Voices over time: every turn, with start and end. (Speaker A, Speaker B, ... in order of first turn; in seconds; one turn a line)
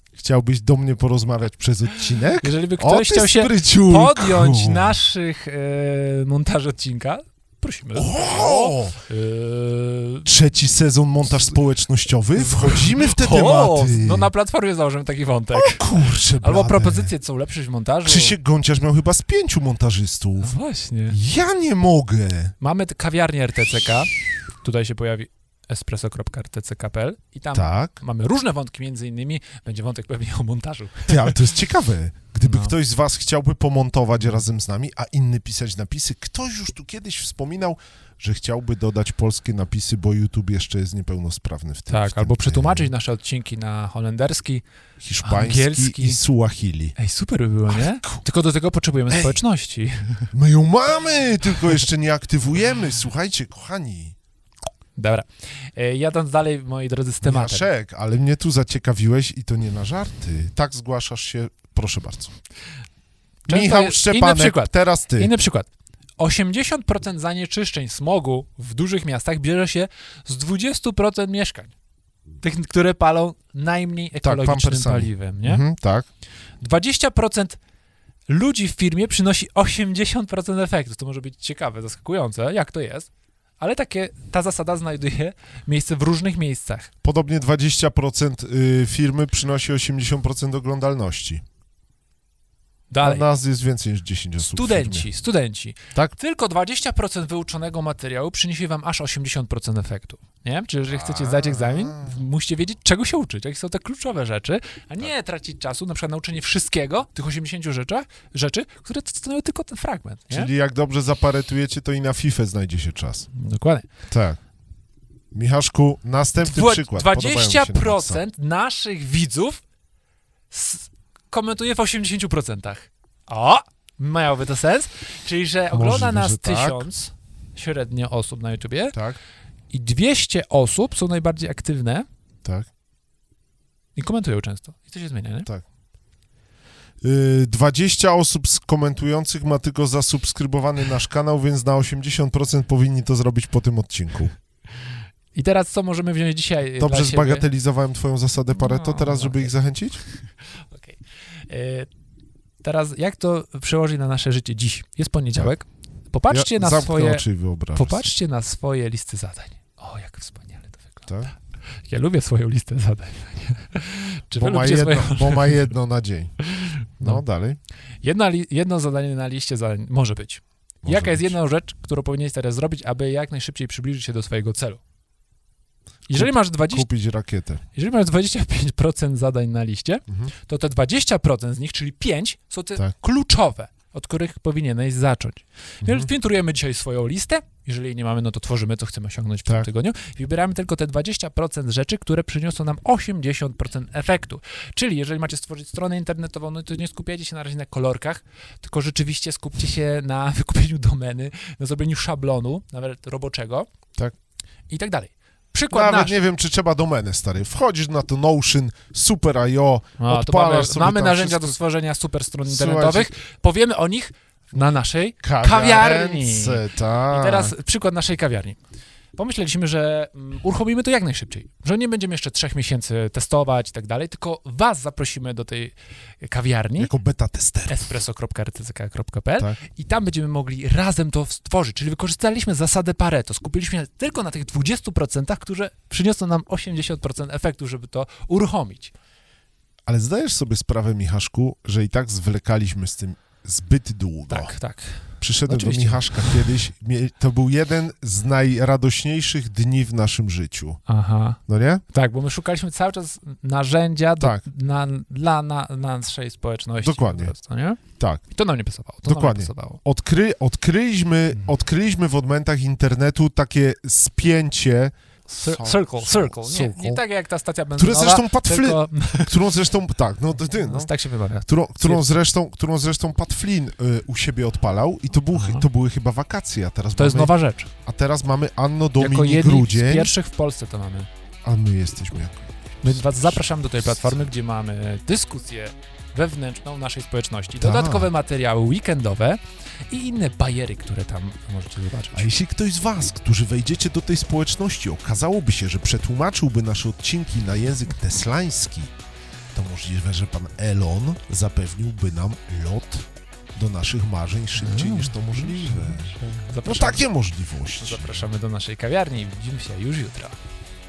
Speaker A: 0.2-5.0
Speaker B: 2.3-10.3
Speaker A: 7.9-9.0
Speaker A: 10.3-14.3
Speaker B: 12.4-18.4
Speaker A: 15.5-17.1
Speaker A: 18.1-20.6
Speaker B: 20.4-21.2
Speaker A: 21.1-22.5
Speaker B: 22.6-31.5
Speaker A: 27.5-27.9
Speaker A: 31.1-42.9
Speaker B: 32.4-32.7
Speaker B: 41.9-44.6
Speaker A: 45.0-47.0
Speaker B: 45.2-46.2
Speaker B: 47.0-50.3
Speaker A: 47.7-48.2
Speaker A: 49.1-49.4
Speaker A: 50.3-54.2
Speaker B: 55.0-57.7
Speaker A: 57.2-62.3
Speaker B: 63.5-65.7
Speaker A: 63.5-65.3
Speaker B: 66.2-71.7
Speaker B: 72.4-75.6
Speaker A: 74.2-76.1
Speaker B: 76.6-77.6
Speaker B: 78.3-86.9
Speaker A: 87.0-91.4
Speaker B: 92.9-93.3
Speaker A: 93.0-95.1
Speaker B: 94.4-110.5
Speaker A: 100.9-102.2
Speaker A: 110.3-113.3
Speaker B: 113.3-113.9
Speaker A: 114.1-114.4
Speaker A: 115.3-118.2
Speaker B: 116.4-119.6
Speaker B: 120.5-129.0
Speaker A: 125.7-126.9
Speaker A: 128.9-129.2
Speaker B: 129.7-132.1
Speaker B: 134.0-135.5
Speaker A: 137.0-144.3
Speaker B: 145.3-147.5
Speaker A: 146.8-150.0
Speaker B: 148.6-149.5
Speaker B: 150.7-151.0
Speaker B: 151.5-151.9
Speaker B: 152.6-157.2
Speaker A: 156.3-158.1
Speaker B: 157.8-161.1
Speaker A: 161.1-161.3
Speaker B: 161.9-165.7
Speaker A: 164.4-166.4
Speaker B: 166.4-167.2
Speaker A: 167.0-167.6
Speaker B: 168.0-174.8
Speaker A: 170.8-171.3
Speaker B: 176.1-176.9
Speaker A: 176.1-177.6
Speaker B: 177.8-203.7
Speaker A: 185.8-186.1
Speaker B: 204.7-206.2
Speaker A: 205.7-211.6
Speaker B: 210.0-218.6
Speaker A: 212.4-213.1
Speaker A: 214.5-217.5
Speaker B: 219.2-226.9
Speaker A: 226.8-227.9
Speaker B: 227.7-238.9
Speaker A: 239.9-244.5
Speaker B: 244.3-246.4
Speaker A: 245.2-250.8
Speaker B: 250.9-259.8
Speaker A: 251.5-251.8
Speaker A: 256.8-257.3
Speaker A: 259.1-267.0
Speaker B: 265.3-269.5
Speaker A: 267.8-270.9
Speaker B: 270.5-272.1
Speaker A: 271.5-277.3
Speaker B: 275.3-275.6
Speaker B: 277.0-277.7
Speaker A: 277.9-280.1
Speaker B: 279.0-281.1
Speaker A: 281.4-283.4
Speaker B: 282.8-292.3
Speaker A: 287.6-288.1
Speaker A: 292.1-298.9
Speaker A: 299.5-308.3
Speaker B: 304.6-307.1
Speaker B: 307.8-310.4